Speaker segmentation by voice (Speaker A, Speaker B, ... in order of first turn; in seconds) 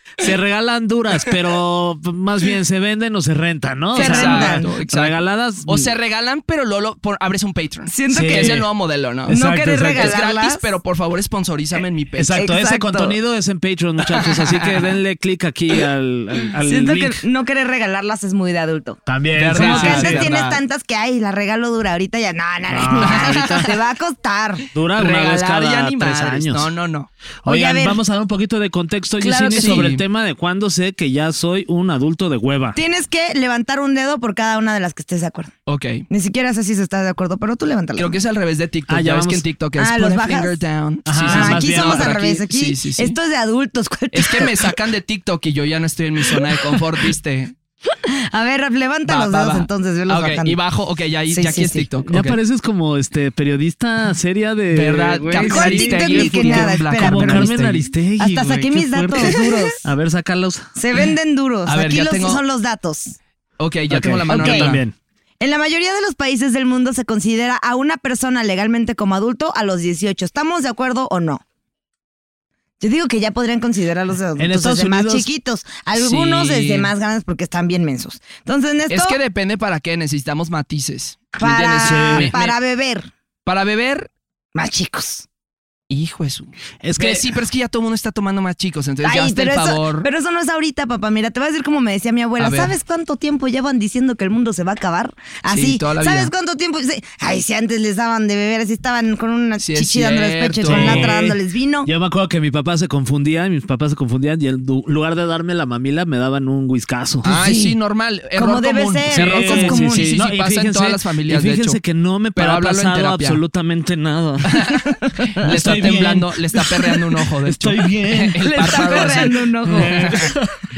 Speaker A: 0.2-5.9, 8.1-8.7, 9.3-10.2, 12.2-17.2, 19.1-20.4, 22.7-23.7, 24.7-26.7, 27.4-32.8, 38.9-39.4, 41.1-42.4, 52.0-60.7, 63.9-65.0, 74.4-75.3, 81.8-82.4, 86.8-87.3, 100.7-107.3, 109.1-114.6, 115.4-116.9, 117.4-120.6
Speaker B: 3.9-9.4, 9.9-12.4, 14.2-14.9, 19.4-20.6, 23.0-23.7, 24.9-27.1, 29.6-30.0, 35.7-36.1, 38.0-43.2, 44.1-47.5, 49.1-52.4, 54.7-57.9, 61.7-62.4, 63.6-64.8, 76.0-76.9, 78.9-82.6, 83.5-84.1, 85.9-90.1, 92.4-92.8, 95.5-96.3, 99.6-101.2, 107.2-111.8, 112.3-113.4, 114.5-114.8, 115.3-120.3
Speaker C: 4.0-4.7, 7.9-8.6, 9.3-10.6, 12.4-13.2, 16.6-19.0, 19.5-24.7, 27.4-28.0, 29.2-29.9, 32.8-35.5, 36.1-38.2, 39.8-40.6, 41.2-44.7, 48.0-50.6, 51.3-51.9, 55.4-59.9, 60.8-63.2, 64.3-64.7, 65.4-71.4, 72.8-79.2, 81.4-83.1, 84.5-85.3, 89.0-101.9, 107.2-107.8, 108.4-110.1, 114.8-115.3, 118.4-120.3